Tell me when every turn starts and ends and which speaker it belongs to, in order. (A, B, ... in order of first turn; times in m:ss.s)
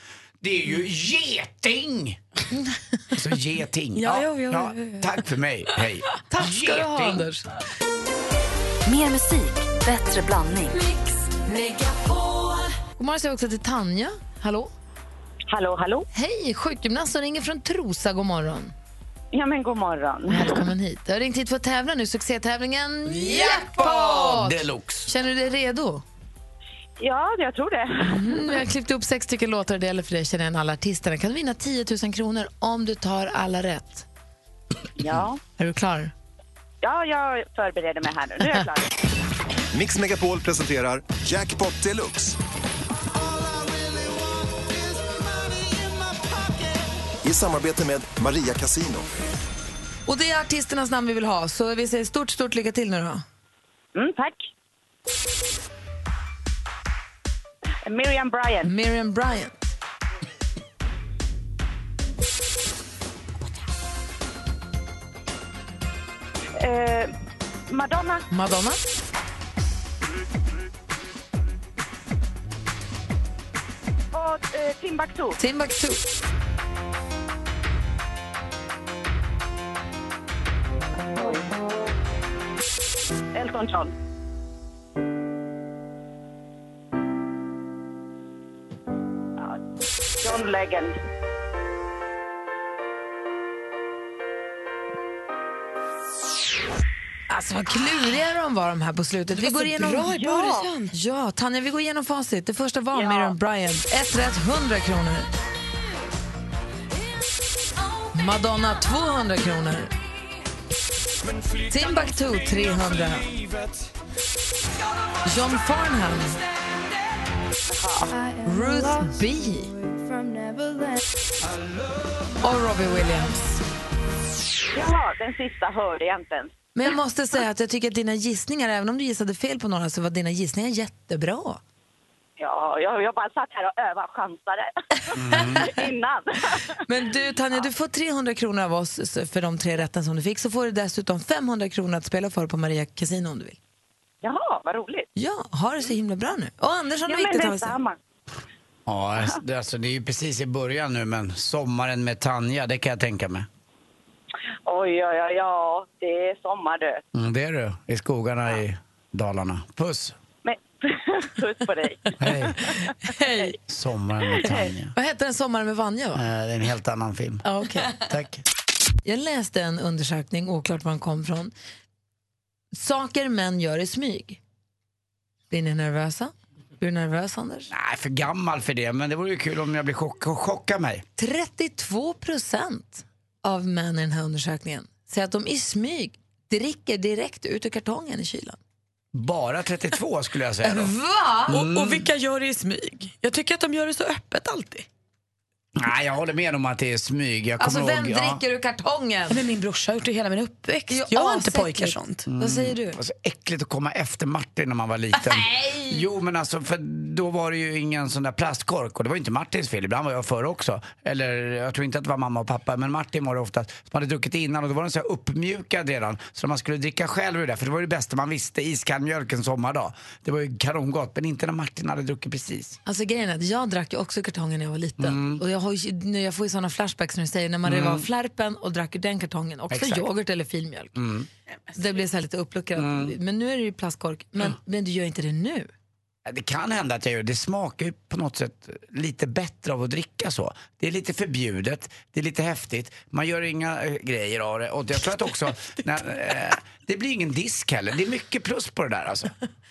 0:00.4-0:02.2 A
0:03.1-0:07.2 A
0:04.0-0:05.2 B
0:06.3-0:07.4 C
0:08.8-0:10.8 D
0:13.0-0:14.7 C
0:15.5-0:16.1 E
0:16.1-0:18.7 C
0:19.3-0:20.5 E
0:20.3-0:26.0 C
0:23.0-0:25.1 A
0:27.0-0:28.3 E
0:28.0-0:34.0 C
0:35.0-0:35.4 E
0:35.6-0:36.1 C
0:36.8-0:38.9 E
0:39.7-0:42.4 F
0:43.3-0:46.2 F
0:47.2-0:49.1 F
0:50.1-0:53.2 C
0:53.9-0:54.4 E
0:57.8-0:58.7 E
0:58.6-0:59.5 C
1:06.6-1:07.1 E
1:07.7-1:08.2 E
1:08.3-1:08.9 C
1:14.1-1:15.4 E
1:15.4-1:16.0 C
1:23.3-1:23.9 E
1:30.2-1:30.9 E
1:37.3-1:40.3 C
1:39.3-1:40.9 B
1:40.3-1:40.6 E
1:40.9-1:45.3 C
1:42.9-1:43.3 E
1:48.1-1:49.9 C
1:51.7-1:53.3 C
1:55.2-1:56.4 C
1:57.7-1:58.1 E
1:58.4-1:59.7 C
2:02.4-2:03.6 C
2:04.7-2:06.5 E
2:06.7-2:11.6 C
2:12.4-2:16.6 E
2:15.1-2:15.7 A
2:16.8-2:23.6 C
2:24.2-2:25.1 E
2:25.2-2:27.8 C
2:27.1-2:28.0 E
2:28.8-2:33.5 A
2:34.6-2:37.0 E
2:37.1-2:40.2 A
2:40.4-2:42.2 E
2:42.2-2:42.6 A
2:43.0-2:43.5 C
2:43.7-2:44.9 A
2:44.9-2:46.2 C
2:46.1-2:48.4 A
2:47.4-2:48.0 C
2:49.0-2:51.5 C
2:52.7-2:54.4 C
2:55.5-2:57.7 C
2:57.7-3:01.0 A
3:01.2-3:08.6 C
3:09.1-3:10.9 A
3:10.6-3:11.6 C
3:11.5-3:12.1 A
3:11.5-3:14.8 B
3:15.8-3:18.4 A
3:17.6-3:19.4 C
3:19.3-3:22.3 B
3:20.9-3:23.0 C
3:22.3-3:42.8 A
3:25.2-3:26.0 C
3:42.8-3:51.0 C
3:45.0-3:45.4 A
3:47.6-3:48.0 A
3:49.7-3:50.1 A
3:50.9-3:51.3 A
3:51.7-3:55.7 C
3:52.8-3:53.1 A
3:56.2-4:09.3 A